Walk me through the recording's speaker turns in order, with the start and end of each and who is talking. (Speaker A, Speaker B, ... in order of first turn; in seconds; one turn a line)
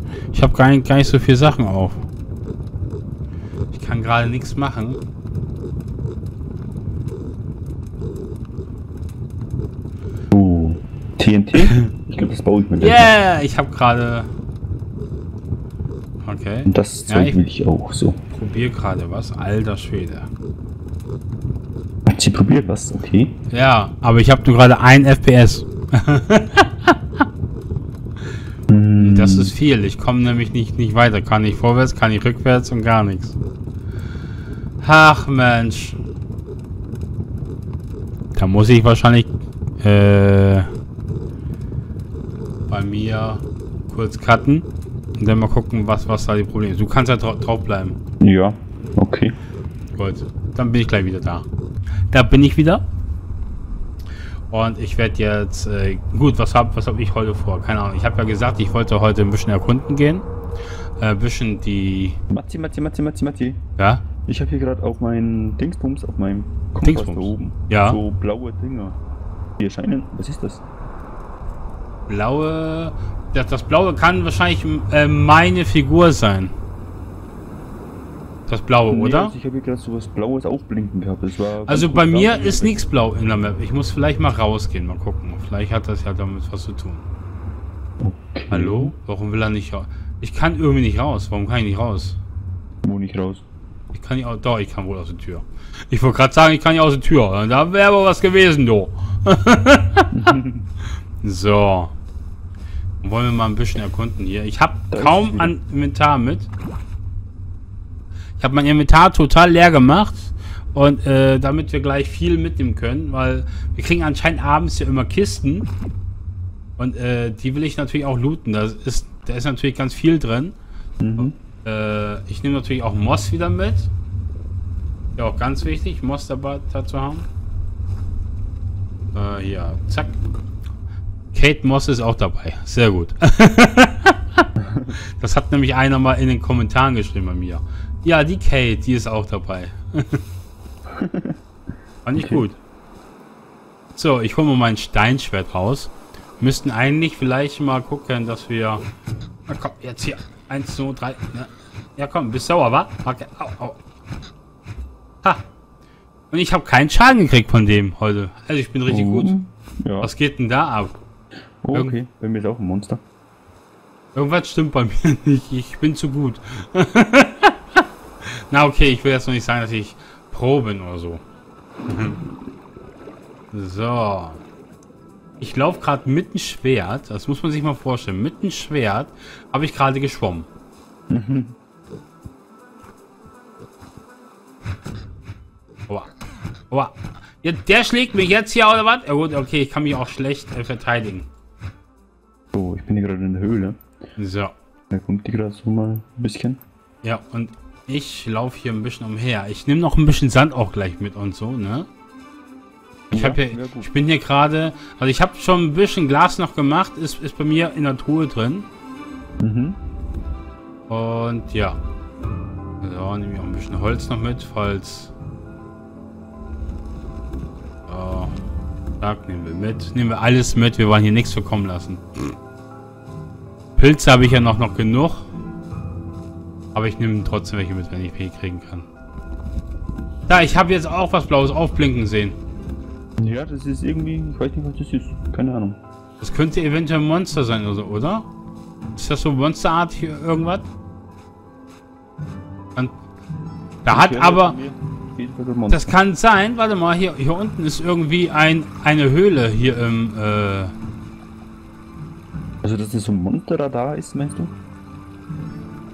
Speaker A: 0.3-2.0
Speaker A: 3.7-5.0
Speaker B: 10.3-13.1
Speaker A: 12.8-14.3
Speaker A: 16.2-17.4
Speaker B: 16.6-18.2
Speaker A: 18.3-20.3
Speaker B: 22.1-23.3
Speaker A: 23.5-26.9
Speaker B: 28.7-29.5
Speaker A: 29.0-33.4
Speaker A: 34.8-36.0
Speaker A: 38.3-40.7
Speaker A: 42.7-44.7
Speaker A: 45.2-48.0
Speaker B: 48.2-49.3
Speaker A: 49.9-51.5
Speaker A: 52.1-52.8
Speaker A: 54.5-60.2
Speaker A: 61.0-62.2
Speaker B: 62.3-63.6
Speaker A: 63.8-64.0
Speaker B: 64.2-69.0
Speaker A: 66.8-68.0
Speaker B: 69.6-70.6
Speaker A: 72.1-76.5
Speaker A: 78.5-79.3
Speaker B: 78.9-82.8
Speaker A: 81.7-87.0
Speaker B: 88.0-88.9
Speaker A: 88.5-92.2
Speaker B: 92.8-93.4
Speaker A: 93.9-100.1
Speaker B: 100.1-100.7
Speaker A: 101.2-101.9
Speaker A: 103.0-106.5
Speaker B: 104.9-105.5
Speaker A: 108.4-115.7
Speaker A: 116.8-120.5
Speaker B: 121.0-121.3
Speaker A: 121.2-123.9
Speaker A: 125.2-127.3
Speaker A: 129.1-130.2
Speaker A: 131.3-134.4
Speaker B: 134.6-134.9
Speaker A: 135.2-140.2
Speaker B: 140.9-141.4
Speaker A: 142.0-142.6
Speaker B: 142.1-142.4
Speaker A: 143.9-148.8
Speaker A: 149.5-153.8
Speaker A: 156.3-159.3
Speaker B: 158.9-160.1
Speaker A: 160.0-160.9
Speaker B: 161.6-163.0
Speaker A: 164.1-171.2
Speaker A: 171.9-172.2
Speaker A: 173.5-174.4
Speaker A: 175.4-180.5
Speaker B: 181.1-181.5
Speaker A: 186.7-191.3
Speaker B: 192.5-193.8
Speaker A: 194.2-194.5
Speaker B: 194.9-196.6
Speaker A: 197.0-201.9
Speaker B: 203.1-203.9
Speaker A: 203.1-208.7
Speaker B: 209.4-209.8
Speaker A: 210.9-211.8
Speaker A: 212.8-215.1
Speaker A: 217.9-218.3
Speaker A: 219.0-222.3
Speaker A: 223.8-225.3
Speaker A: 226.7-228.9
Speaker A: 230.3-232.4
Speaker B: 233.2-235.8
Speaker A: 236.2-238.3
Speaker A: 238.9-240.7
Speaker A: 243.8-244.6
Speaker B: 243.9-245.9
Speaker A: 245.7-250.7
Speaker B: 252.6-254.5